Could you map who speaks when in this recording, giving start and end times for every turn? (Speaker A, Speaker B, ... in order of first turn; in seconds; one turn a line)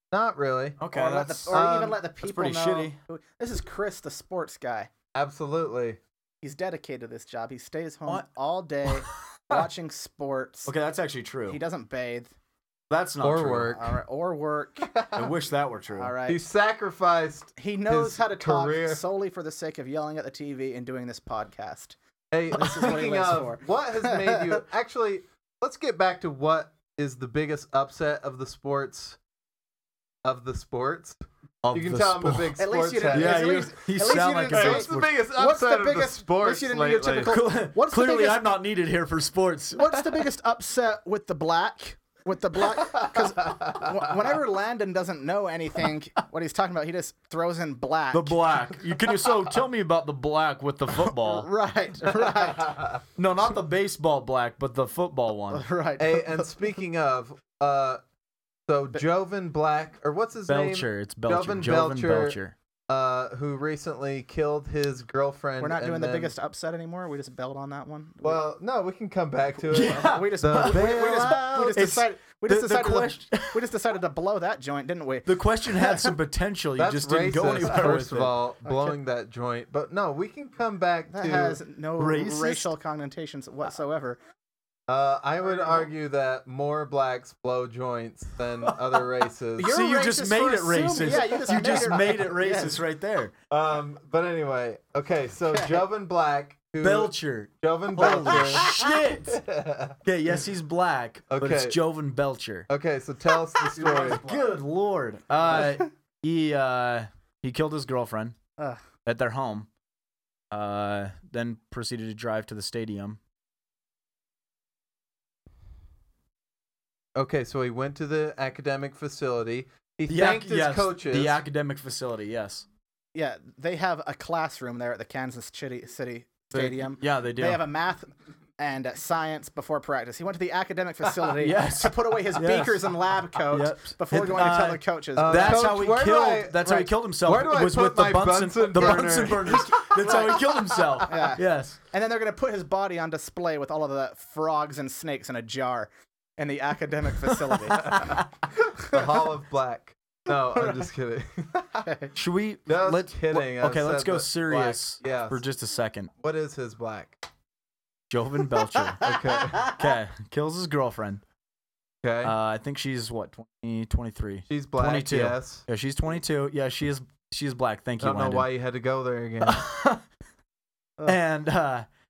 Speaker A: 0.1-0.8
Speaker B: 0.8-1.6
Speaker C: 0.9-4.9
Speaker A: 1.5-2.0
Speaker B: 2.2-3.0
Speaker A: 5.2-6.0
Speaker C: 6.4-10.7
Speaker B: 8.9-9.7
Speaker B: 10.7-11.6
Speaker C: 11.5-12.3
Speaker B: 12.9-13.8
Speaker A: 13.2-13.9
Speaker C: 13.7-15.1
Speaker B: 15.1-16.1
Speaker C: 15.9-16.4
Speaker A: 16.3-19.0
Speaker C: 17.6-22.0
Speaker A: 22.3-29.2
Speaker C: 22.5-24.6
Speaker A: 30.2-31.2
Speaker B: 31.6-32.6
Speaker A: 31.7-33.5
Speaker C: 32.6-38.5
Speaker B: 33.1-35.1
Speaker A: 34.5-37.4
Speaker B: 37.2-40.2
Speaker C: 39.8-48.6
Speaker B: 48.1-51.5
Speaker C: 51.0-53.0
Speaker B: 53.2-55.6
Speaker C: 55.5-56.5
Speaker A: 56.0-58.0
Speaker A: 58.7-62.4
Speaker B: 60.5-62.5
Speaker A: 62.9-66.3
Speaker C: 65.6-68.4
Speaker A: 68.2-71.5
Speaker B: 69.7-73.7
Speaker C: 69.7-76.1
Speaker B: 75.3-78.4
Speaker A: 76.8-81.6
Speaker C: 81.1-84.2
Speaker B: 82.0-82.7
Speaker A: 84.9-89.7
Speaker C: 89.6-92.8
Speaker B: 89.6-93.3
Speaker A: 93.5-98.7
Speaker C: 95.5-95.8
Speaker B: 96.8-99.4
Speaker C: 98.0-98.8
Speaker A: 99.3-100.0
Speaker B: 100.0-102.7
Speaker A: 101.3-101.8
Speaker A: 102.7-104.2
Speaker B: 103.7-108.4
Speaker C: 108.6-108.8
Speaker B: 109.0-109.7
Speaker B: 110.5-113.2
Speaker A: 117.2-121.4
Speaker B: 120.1-122.7
Speaker C: 123.2-135.8
Speaker B: 126.5-127.6
Speaker B: 131.4-141.8
Speaker A: 135.2-139.9
Speaker C: 138.8-148.3
Speaker B: 147.5-147.9
Speaker A: 148.8-151.8
Speaker C: 150.5-150.9
Speaker C: 151.8-152.1
Speaker B: 152.2-156.1
Speaker A: 152.7-155.4
Speaker A: 156.2-157.2
Speaker B: 158.1-159.1
Speaker A: 159.0-159.7
Speaker B: 159.6-161.2
Speaker A: 162.0-162.3
Speaker B: 162.2-168.5
Speaker A: 164.5-165.7
Speaker A: 168.0-169.6
Speaker B: 169.4-170.0
Speaker B: 171.1-171.9